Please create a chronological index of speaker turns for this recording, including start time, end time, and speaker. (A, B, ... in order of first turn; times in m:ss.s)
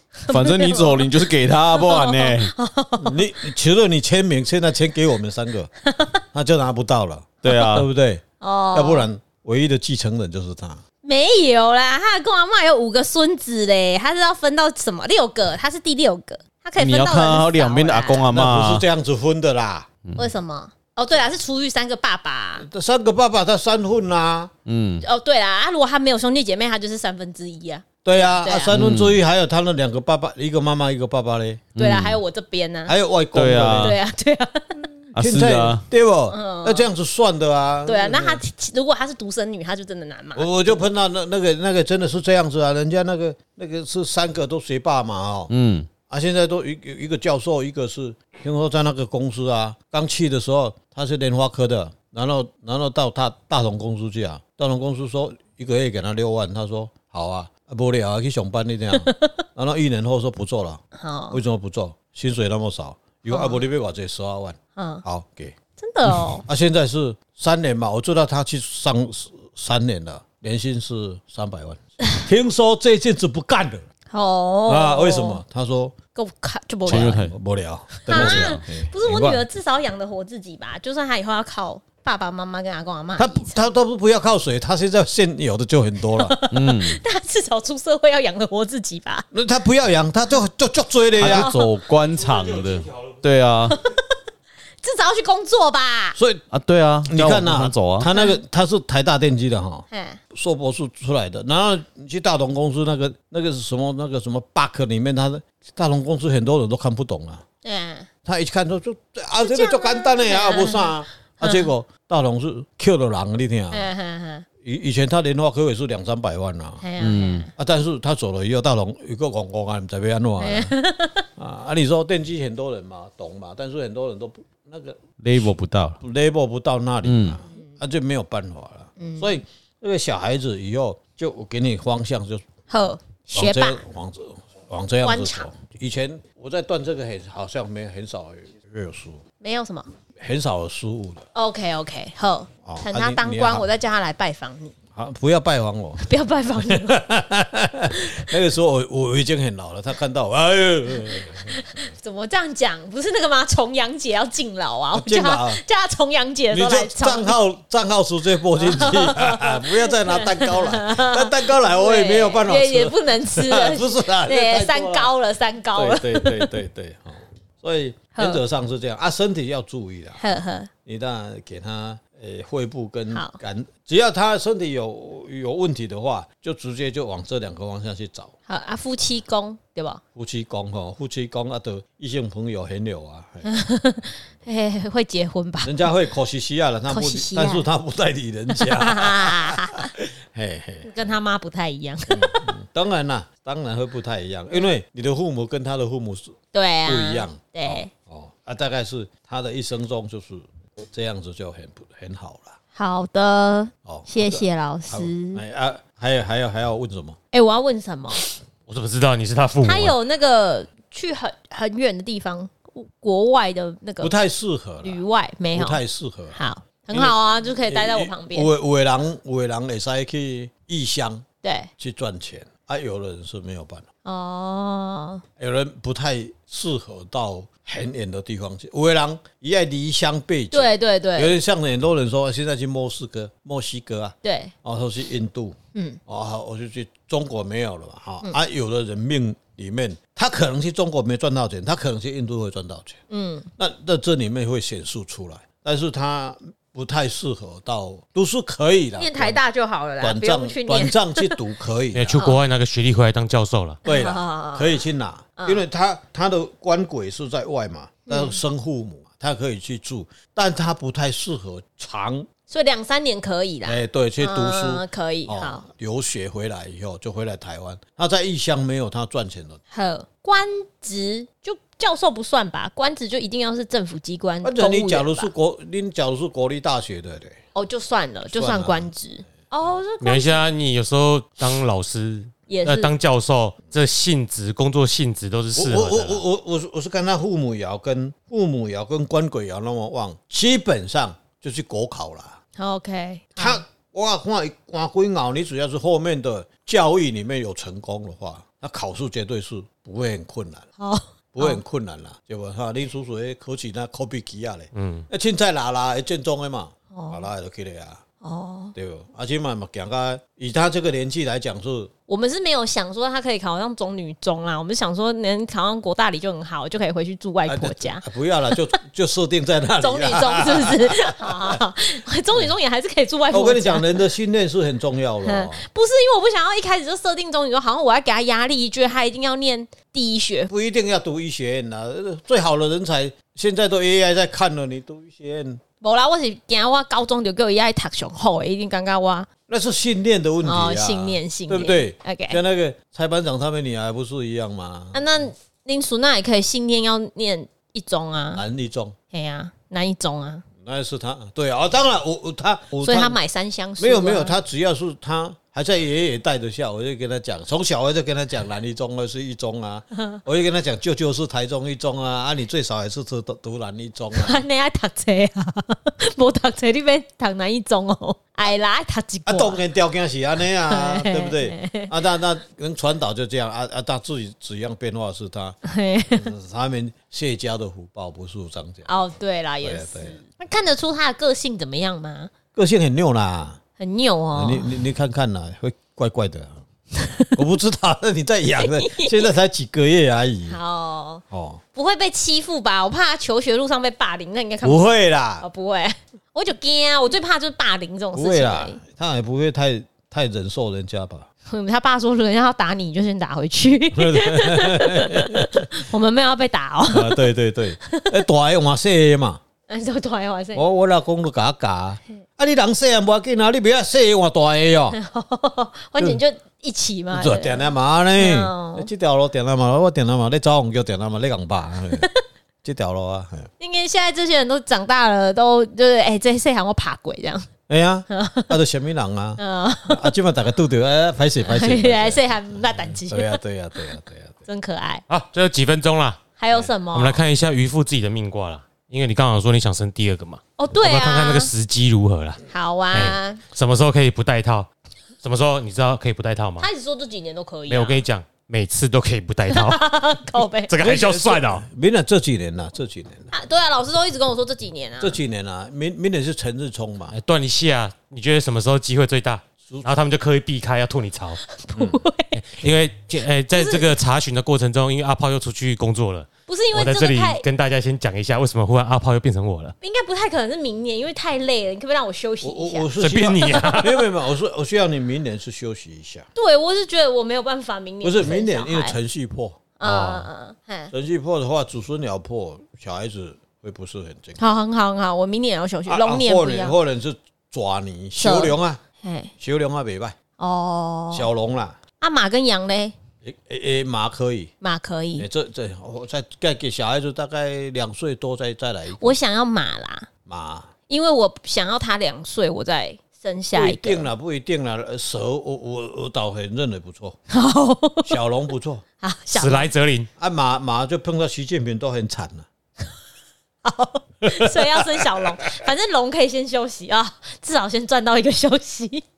0:00.2-0:01.1 A
0:00.3-0:02.5 B
0:01.7-0:03.2 A
0:03.0-0:05.7 C
0:05.8-0:06.2 A
0:06.3-0:08.2 C
0:07.4-0:07.9 B
0:08.4-0:09.1 A
0:08.7-0:10.8 C
0:11.0-0:18.3 A
0:16.8-0:18.8 B
0:18.3-0:19.9 C
0:20.2-0:22.7 A
0:22.6-0:24.5 C
0:24.7-0:25.0 B
0:25.0-0:28.8 A
0:28.0-0:31.7 C
0:28.7-0:29.2 B
0:31.8-0:32.2 B
0:31.8-0:32.9 A
0:32.9-0:34.0 C
0:33.3-0:34.0 B
0:33.8-0:34.9 A
0:35.2-0:35.8 B
0:35.2-0:38.4 C
0:36.3-0:36.9 A
0:37.9-0:40.5 A
0:40.4-0:45.5 C
0:45.5-0:45.9 B
0:46.1-1:05.6 C
0:59.0-0:59.3 A
1:01.0-1:01.4 A
1:03.3-1:03.6 A
1:04.8-1:05.0 A
1:05.8-1:06.4 A
1:06.4-1:13.8 C
1:14.1-1:15.4 A
1:14.7-1:16.0 C
1:16.2-1:17.2 A
1:16.9-1:19.4 C
1:16.9-1:17.3 B
1:18.0-1:23.7 A
1:18.1-1:18.6 B
1:23.2-1:26.4 C
1:26.1-1:29.3 A
1:26.5-1:27.0 B
1:29.3-1:31.5 C
1:31.2-1:33.8 B
1:31.2-1:31.7 A
1:32.0-1:33.2 D
1:34.8-1:36.2 A
1:36.2-1:36.4 C
1:36.5-1:38.1 B
1:37.0-1:47.4 C
1:38.1-1:38.4 A
1:39.9-1:40.2 A
1:47.6-1:48.1 A
1:48.2-1:53.9 C
1:49.4-1:51.7 A
1:53.7-1:54.4 A
1:54.6-1:56.8 C
1:56.8-1:57.5 A
1:57.0-1:57.5 B
1:57.6-2:00.8 C
2:00.4-2:01.3 A
2:01.4-2:12.4 C
2:05.2-2:06.0 B
2:07.0-2:07.4 B
2:09.0-2:09.3 A
2:12.7-2:13.8 A
2:13.3-2:19.2 C
2:15.0-2:15.5 A
2:19.4-2:19.9 A
2:20.2-2:21.2 C
2:21.3-2:24.8 A
2:22.6-2:23.7 C
2:24.9-2:26.1 C
2:26.0-2:27.0 A
2:26.7-2:31.6 C
2:31.5-2:37.4 A
2:34.9-2:35.6 C
2:36.5-2:45.1 C
2:38.6-2:46.6 A
2:45.8-2:50.2 C
2:48.1-2:48.4 A
2:50.2-2:50.7 A
2:50.9-2:58.3 C
2:53.1-2:53.4 A
2:58.5-3:00.0 A
3:00.2-3:03.5 C
3:03.4-3:05.8 A
3:05.6-3:11.1 C
3:06.9-3:07.7 A
3:08.5-3:09.9 A
3:10.8-3:12.6 A
3:12.1-3:22.6 C
3:16.5-3:17.9 A
3:22.8-3:25.4 A
3:23.8-3:27.2 C
3:27.3-3:28.2 A
3:28.7-3:30.0 D
3:29.6-3:34.1 A
3:34.0-3:36.4 C
3:34.8-3:35.8 A
3:36.3-3:38.5 A
3:36.9-3:41.2 C
3:41.4-3:41.7 A
3:41.8-3:43.9 C
3:44.0-3:45.2 A
3:45.4-4:03.0 C
3:50.5-3:51.4 A
3:54.2-3:54.5 A
4:03.1-4:03.5 A
4:03.6-4:09.4 C
4:09.0-4:11.4 A
4:10.0-4:12.3 C
4:12.0-4:13.8 D
4:12.2-4:12.4 A
4:13.8-4:14.9 A
4:13.8-4:22.3 C
4:15.4-4:15.6 A
4:18.1-4:18.4 A
4:22.5-4:25.6 A
4:23.7-4:29.6 C
4:29.7-4:35.3 A
4:34.4-4:37.4 C
4:37.6-4:40.4 A
4:38.3-4:38.9 C
4:40.0-4:46.2 D
4:42.5-4:42.9 A
4:45.6-4:52.4 C
4:52.6-4:53.6 A
4:53.4-5:00.7 C
5:00.8-5:01.6 A
5:01.3-5:08.0 C
5:04.7-5:05.1 D
5:06.9-5:07.3 A
5:08.2-5:08.8 A
5:08.8-5:11.9 C
5:12.1-5:18.5 A
5:17.5-5:21.6 C
5:19.8-5:24.0 A
5:23.3-5:25.6 C
5:25.2-5:30.5 A
5:30.5-5:35.6 C
5:35.8-5:39.3 A
5:39.5-5:45.0 C
5:40.4-5:42.4 A
5:44.9-5:48.4 A
5:48.3-5:49.0 C
5:49.1-5:50.4 A
5:50.6-5:53.2 C
5:52.8-5:54.4 A
5:53.8-6:04.4 C
6:04.2-6:09.6 A
6:09.2-6:15.6 C
6:10.7-6:11.9 A
6:15.6-6:16.3 A
6:16.1-6:18.9 C
6:18.9-6:22.3 A
6:19.6-6:20.2 C
6:22.6-6:23.6 C
6:23.8-6:24.7 A
6:24.4-6:26.6 C
6:27.0-6:27.4 A
6:27.4-6:30.6 C
6:28.6-6:29.2 A
6:30.5-6:31.2 A
6:31.3-6:31.6 C
6:31.7-6:38.8 A
6:34.6-6:35.4 C
6:38.1-6:41.3 C
6:41.5-6:47.2 A
6:44.0-6:45.7 C
6:46.9-6:49.4 C
6:47.9-6:48.2 A
6:49.7-6:50.6 A
6:50.5-6:55.0 C
6:54.9-6:58.9 A
6:57.1-7:02.1 C
7:02.6-7:03.5 C
7:03.6-7:07.5 A
7:07.7-7:14.4 C
7:08.1-7:08.5 A
7:09.4-7:10.0 A
7:11.4-7:13.4 A
7:14.5-7:15.0 A
7:15.1-7:16.2 D
7:16.4-7:17.2 A
7:16.9-7:24.7 D
7:20.6-7:21.5 A
7:22.5-7:23.4 A
7:25.2-7:26.7 D
7:26.6-7:28.0 A
7:27.7-7:29.8 D
7:29.5-7:30.7 A
7:30.7-7:31.7 D
7:30.8-7:33.3 C
7:33.3-7:35.2 A
7:35.0-7:37.2 C
7:37.1-7:41.4 D
7:41.6-7:42.4 A
7:42.3-7:49.8 D
7:43.5-7:43.9 A
7:46.5-7:47.4 A
7:49.8-7:53.8 A
7:52.4-7:56.3 C
7:53.0-7:54.0 D
7:56.4-7:59.0 A
7:58.0-8:00.3 C
7:59.8-8:00.9 A
8:00.9-8:04.4 C
8:04.4-8:06.8 A
8:05.9-8:08.8 C
8:08.2-8:09.3 A
8:09.4-8:10.2 C
8:10.4-8:11.3 A
8:11.1-8:11.8 C
8:12.0-8:13.0 A
8:13.2-8:14.5 C
8:14.6-8:15.3 A
8:15.2-8:19.2 C
8:19.0-8:20.1 A
8:20.3-8:20.7 C
8:20.9-8:24.1 A
8:23.5-8:27.2 C
8:27.3-8:28.2 A
8:28.0-8:28.8 C
8:29.0-8:29.7 A
8:29.3-8:30.1 D
8:30.2-8:32.5 C
8:33.6-8:39.0 A
8:34.2-8:35.3 C